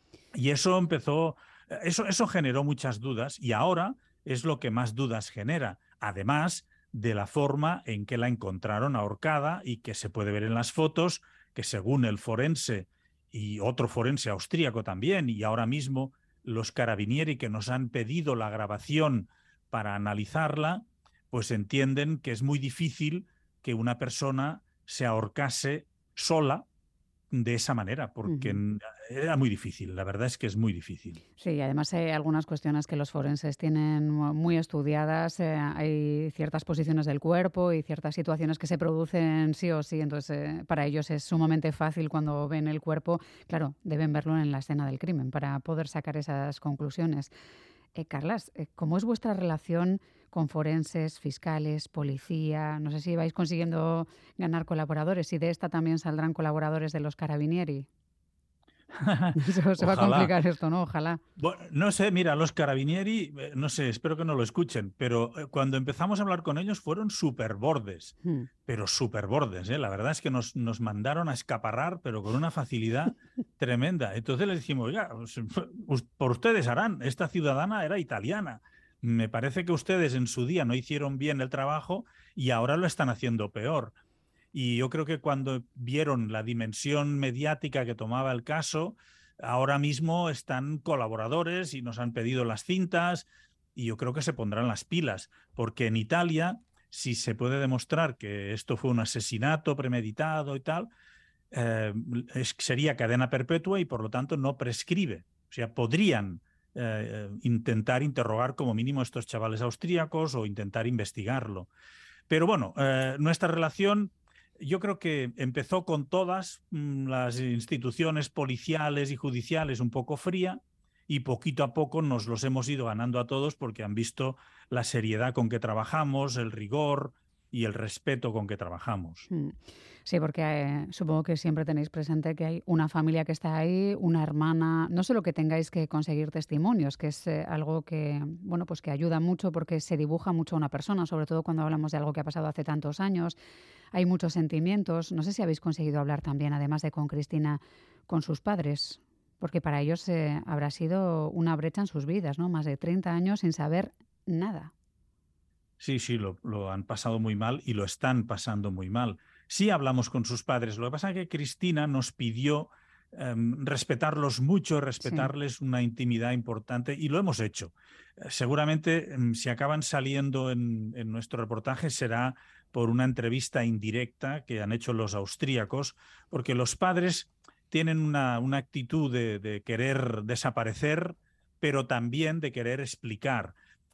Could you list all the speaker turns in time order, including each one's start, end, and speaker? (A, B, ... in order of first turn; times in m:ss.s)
0:00.3-0:26.6 A
0:27.3-0:31.2 A
0:28.3-0:28.6 B
0:31.4-0:47.3 B
0:47.9-0:57.9 B
0:59.0-1:00.3 A
0:59.3-1:01.2 B
1:01.4-1:08.1 A
1:08.6-1:24.0 A
1:24.5-1:40.9 A
1:41.5-1:51.7 A
1:52.3-2:09.3 A
2:09.3-2:23.4 B
2:23.9-2:34.7 B
2:35.8-3:03.6 A
2:45.0-2:45.3 B